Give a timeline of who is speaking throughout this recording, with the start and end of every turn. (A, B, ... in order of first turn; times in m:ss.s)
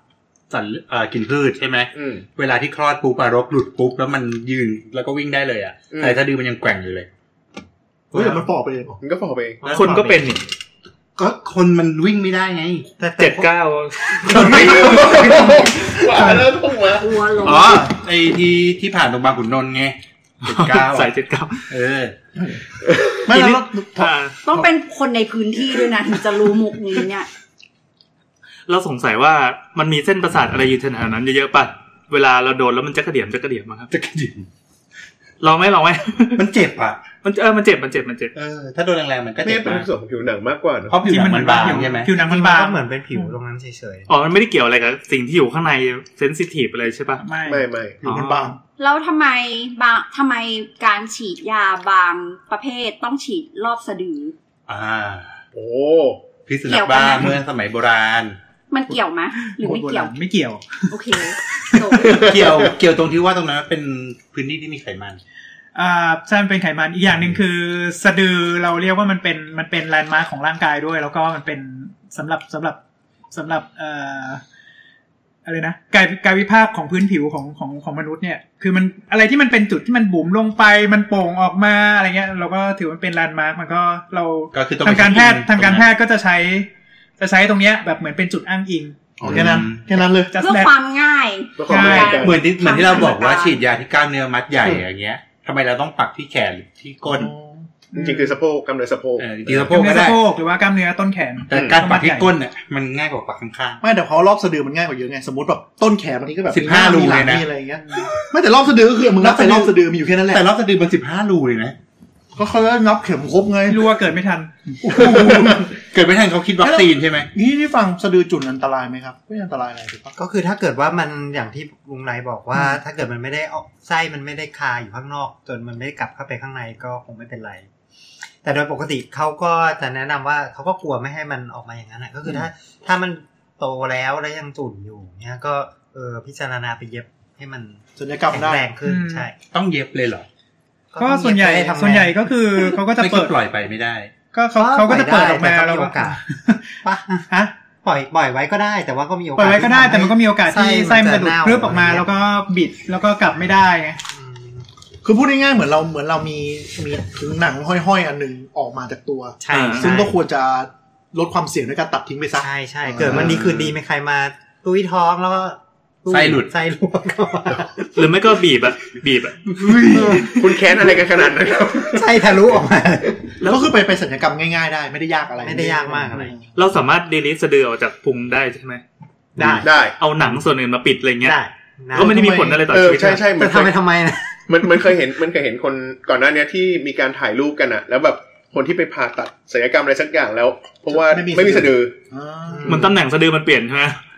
0:00.5-0:07.1 A
0:01.9-0:02.2 B
0:05.9-0:06.2 B
0:08.1-0:08.4 A
0:08.1-0:09.0 C
0:09.0-0:09.9 B
0:09.6-0:10.2 D
0:09.6-0:10.4 E
0:11.2-0:12.8 A
0:13.0-0:13.5 D
0:13.2-0:15.0 E
0:14.3-0:17.2 B
0:14.4-0:15.2 A
0:16.9-0:17.9 F
0:17.4-0:21.1 A
0:20.4-0:21.6 E
0:21.7-0:22.1 A
0:22.8-0:23.2 B
0:23.2-0:24.7 C
0:23.3-0:24.4 E
0:24.4-0:27.3 F
0:28.7-0:33.9 E
0:33.9-0:34.5 A
0:35.4-0:36.4 E
0:36.4-0:37.0 A
0:37.2-0:38.3 E
0:38.3-0:39.9 A
0:39.4-0:41.0 B
0:40.9-0:42.1 A
0:41.0-0:42.8 G
0:42.2-0:44.1 D
0:44.1-0:47.2 E
0:47.2-0:47.6 G
0:47.4-0:48.1 B
0:48.0-0:48.6 C
0:48.0-0:48.5 E
0:48.8-0:54.3 F
0:54.7-0:55.4 A
0:55.5-0:56.2 B
0:56.4-0:58.4 A
0:56.6-0:57.4 F
0:58.7-1:00.1 F
0:59.5-1:00.8 G
1:00.9-1:02.2 F
1:02.0-1:02.7 B
1:02.0-1:05.2 A
1:05.7-1:12.8 G
1:13.3-1:14.4 G
1:15.4-1:26.7 G
1:24.5-1:25.9 A
1:27.2-1:29.0 G
1:29.2-1:30.3 C
1:29.2-1:29.9 A
1:30.3-1:30.7 G
1:30.4-1:33.6 F
1:31.6-1:32.4 B
1:31.7-1:32.2 G
1:32.2-1:37.3 A
1:37.0-1:37.8 C
1:37.9-1:39.7 B
1:37.9-1:38.3 G
1:39.2-1:40.2 A
1:39.7-1:42.3 G
1:41.5-1:43.8 A
1:41.5-1:41.8 B
1:43.8-1:50.4 C
1:46.5-1:47.4 A
1:49.1-1:49.7 A
1:50.3-1:51.7 A
1:52.3-1:53.9 C
1:53.7-1:54.5 G
1:54.8-1:57.3 A
1:54.8-1:55.7 C
1:56.6-2:00.1 C
2:00.2-2:07.7 D
2:08.4-2:19.4 D
2:18.0-2:18.6 C
2:18.8-2:19.3 G
2:19.5-2:20.3 A
2:20.9-2:22.3 D
2:21.0-2:23.3 G
2:23.0-2:24.1 A
2:24.3-2:26.6 G
2:24.6-2:26.2 D
2:26.8-2:27.3 D
2:27.8-2:32.1 D
2:29.4-2:34.0 G
2:34.1-2:34.7 D
2:35.0-2:43.4 C
2:39.4-2:40.2 D
2:39.5-2:39.9 E
2:42.4-2:47.8 D
2:43.0-2:43.7 A
2:46.1-2:46.5 A
2:47.9-2:50.3 E
2:49.6-2:50.2 A
2:49.6-2:50.4 D
2:50.2-2:52.0 B
2:51.9-2:53.4 D
2:53.4-2:56.5 C
2:55.4-2:56.3 D
2:56.5-2:58.8 E
2:59.4-2:59.7 D
2:59.6-3:00.0 B
2:59.7-3:01.4 E
3:01.2-3:02.2 D
3:01.9-3:03.2 E
3:02.0-3:02.6 C
3:02.6-3:03.7 B
3:03.4-3:04.4 D
3:04.5-3:12.0 B
3:10.9-3:12.9 C
3:12.5-3:12.9 D
3:12.6-3:14.0 E